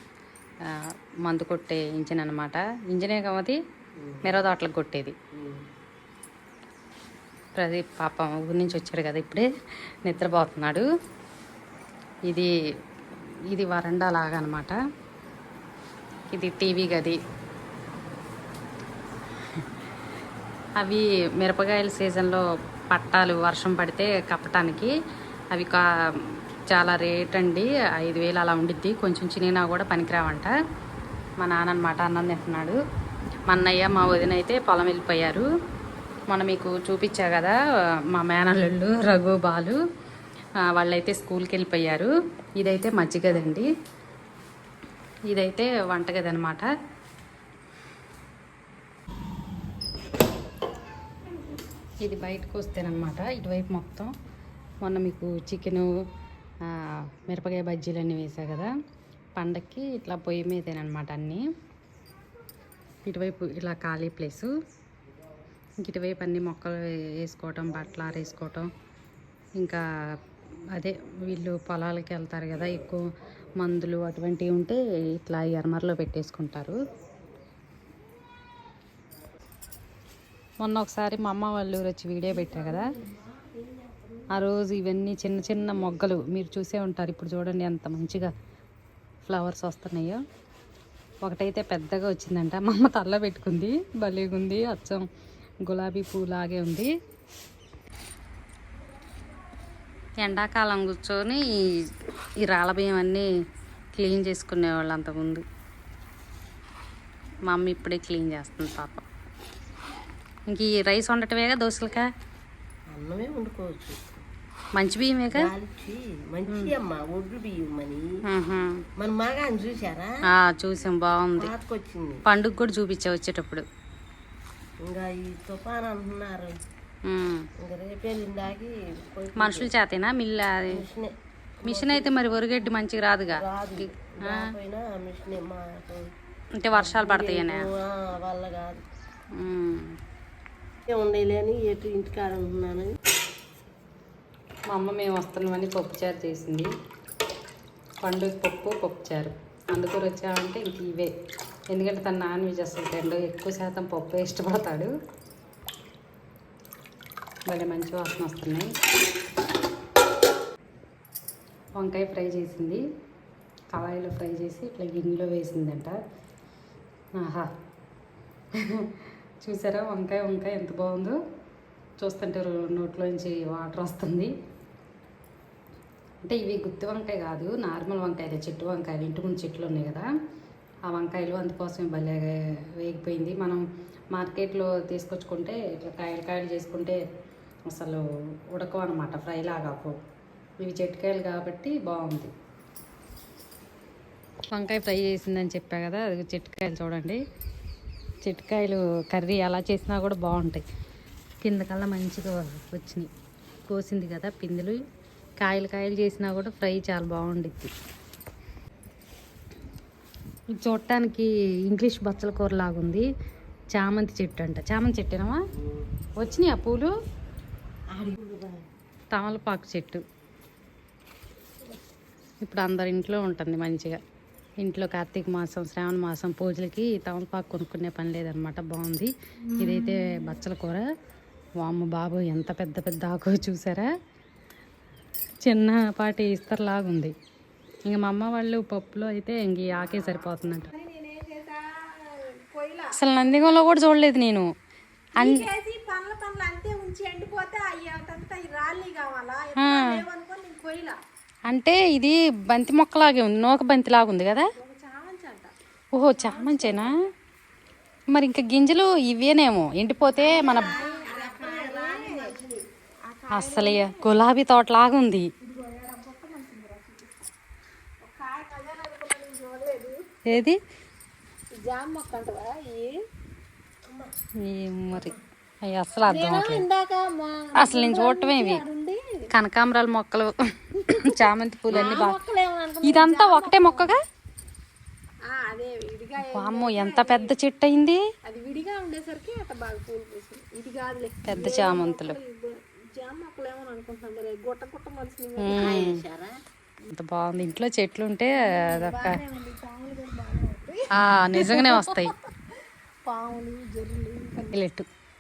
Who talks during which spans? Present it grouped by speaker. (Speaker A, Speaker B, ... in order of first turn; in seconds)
Speaker A: 0.7-3.6, 4.2-5.2, 7.6-9.5, 10.1-10.9, 13.5-14.8, 16.3-17.2, 20.8-24.9, 25.5-30.5, 31.4-32.8, 33.5-35.5, 36.3-37.6, 38.1-39.8, 40.7-43.7, 45.3-46.7, 52.0-54.1, 54.8-55.9, 56.7-58.7, 59.4-61.4, 63.1-64.5, 65.8-68.7, 70.8-73.0, 73.6-76.8, 80.6-82.9, 84.3-88.3, 89.2-90.2, 91.2-95.0, 95.7-96.9, 100.2-101.5, 102.4-103.3, 104.0-105.4, 107.5-109.1, 110.5-112.1, 114.8-115.5, 118.3-118.8, 120.3-121.5, 122.3-123.7, 127.1-127.5, 129.4-130.8, 131.7-134.5, 136.6-137.7, 139.4-139.9, 144.7-146.7, 148.0-151.1, 151.7-154.9, 157.5-158.7, 161.8-162.8, 163.7-166.0, 167.2-167.5, 168.6-171.2, 172.0-174.3, 176.2-180.1, 180.9-183.6, 184.1-187.0, 187.7-190.0, 190.6-192.3, 194.5-197.2, 198.2-200.6, 201.4-203.1, 203.7-204.8, 205.4-207.7, 210.5-213.1, 213.7-215.4, 216.2-216.9, 219.1-220.0, 222.4-224.0, 224.6-230.9, 231.6-233.9, 235.4-237.2, 237.9-240.7, 242.9-244.5, 245.2-245.5, 249.6-250.0, 251.5-254.5, 255.9-256.9, 258.1-260.7, 263.3-265.3, 270.3-270.6, 274.4-276.6, 277.6-278.6, 279.3-282.2, 282.8-284.0, 286.2-288.0, 291.3-292.2, 295.4-296.0, 296.9-299.2, 300.9-302.2, 304.5-304.9
Speaker B: 4.0-4.3, 5.3-5.6, 82.7-84.1, 112.9-114.2, 115.3-118.0, 119.0-120.1, 121.4-122.2, 124.8-126.6, 127.6-129.7, 130.7-132.2, 133.3-136.1, 136.7-138.8, 140.9-143.0, 217.9-218.7, 260.4-262.5, 273.9-274.1, 281.7-282.1, 295.5-296.4
Speaker C: 240.7-243.0, 245.2-251.0, 254.6-255.5, 256.2-257.0, 260.2-264.1, 265.4-267.3, 268.0-270.1, 271.5-273.0, 276.1-279.3, 281.7-283.9, 285.3-287.3, 288.2-295.9, 298.5-302.3, 303.1-304.6